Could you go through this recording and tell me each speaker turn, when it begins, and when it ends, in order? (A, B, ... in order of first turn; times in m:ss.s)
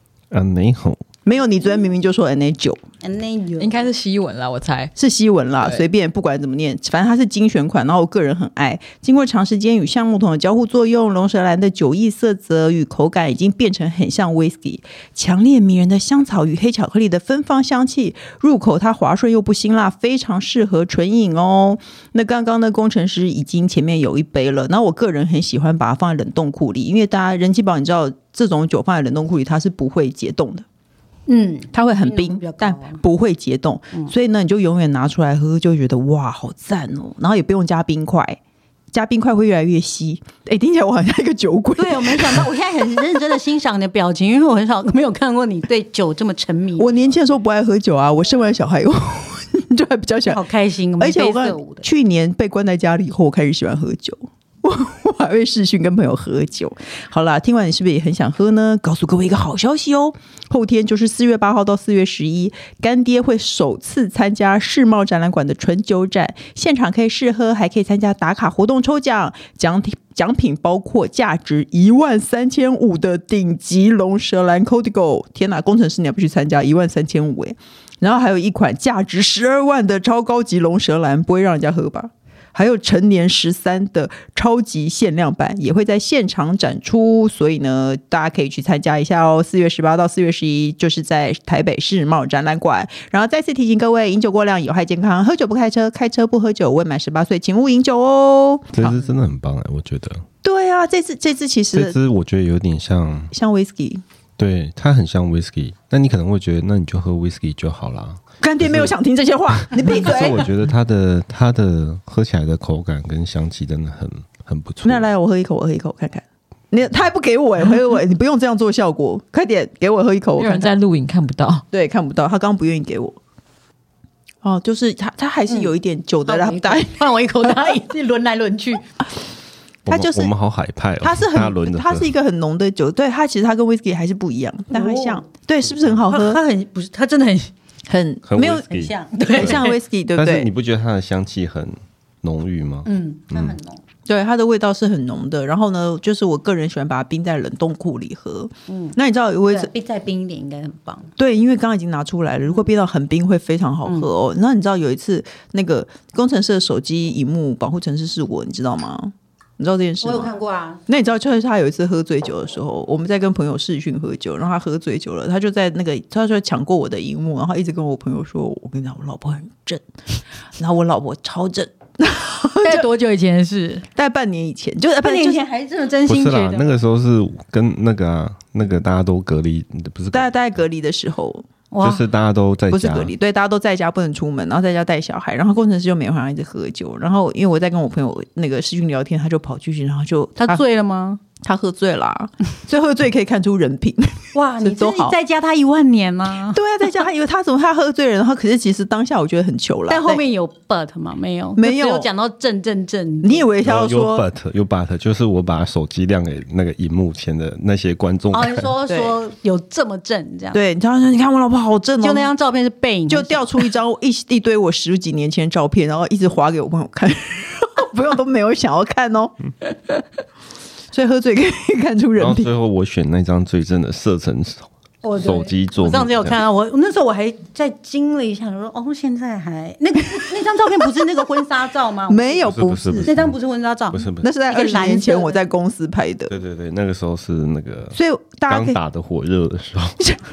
0:00.3-0:01.0 A
0:01.3-0:02.8 B
0:03.0-0:03.9 C
0:03.6-0:04.9 D
0:05.0-0:30.6 B
0:31.3-0:33.0 C
0:31.7-0:38.4 B
0:38.9-0:42.5 B
0:41.8-0:46.9 C
0:46.8-0:50.4 B
0:50.3-0:51.8 C
0:51.0-1:39.0 B
1:38.7-1:40.2 A
1:40.4-1:42.0 B
1:41.7-1:43.3 A
1:43.3-1:44.0 B
1:44.4-1:49.0 A
1:48.4-1:50.5 B
1:49.5-1:55.1 A
1:54.8-2:00.7 B
2:00.4-2:01.6 D
2:01.7-2:03.2 B
2:04.4-2:06.9 B
2:06.3-2:08.9 C
2:09.9-2:12.1 A
2:09.9-2:10.3 B
2:11.0-2:16.4 B
2:14.7-2:15.2 C
2:16.1-2:17.5 C
2:17.9-2:18.7 B
2:18.3-2:23.6 A
2:18.7-2:19.8 C
2:19.4-2:20.5 B
2:22.9-2:23.8 C
2:24.1-2:29.7 B
2:28.7-2:29.0 C
2:29.5-2:31.1 C
2:31.2-2:40.3 B
2:40.0-2:40.8 C
2:40.9-2:49.8 B
2:50.6-2:52.9 B
2:52.6-2:53.9 C
2:54.0-2:55.4 B
2:55.0-2:56.8 C
2:56.0-3:00.3 A
3:00.1-3:01.4 B
3:01.7-3:02.0 C
3:01.8-3:03.1 A
3:02.7-3:10.6 B
3:10.4-3:11.2 C
3:11.4-3:15.2 B
3:14.3-3:16.6 C
3:16.5-3:20.2 B
3:19.9-3:23.5 C
3:21.6-3:22.1 B
3:23.2-3:24.2 B
3:23.6-3:28.7 A
3:28.3-3:30.6 C
3:28.9-3:29.2 B
3:30.5-3:32.3 B
3:32.0-3:33.7 C
3:33.1-3:39.3 B
3:40.9-3:42.5 B
3:42.2-3:46.4 A
3:45.0-3:52.5 C
3:52.1-3:53.1 B
3:52.4-3:53.4 A
3:53.0-3:55.4 C
3:53.9-3:54.2 A
3:54.2-3:56.3 B
3:56.3-3:58.0 A
3:57.9-3:58.8 B
3:58.5-4:00.2 A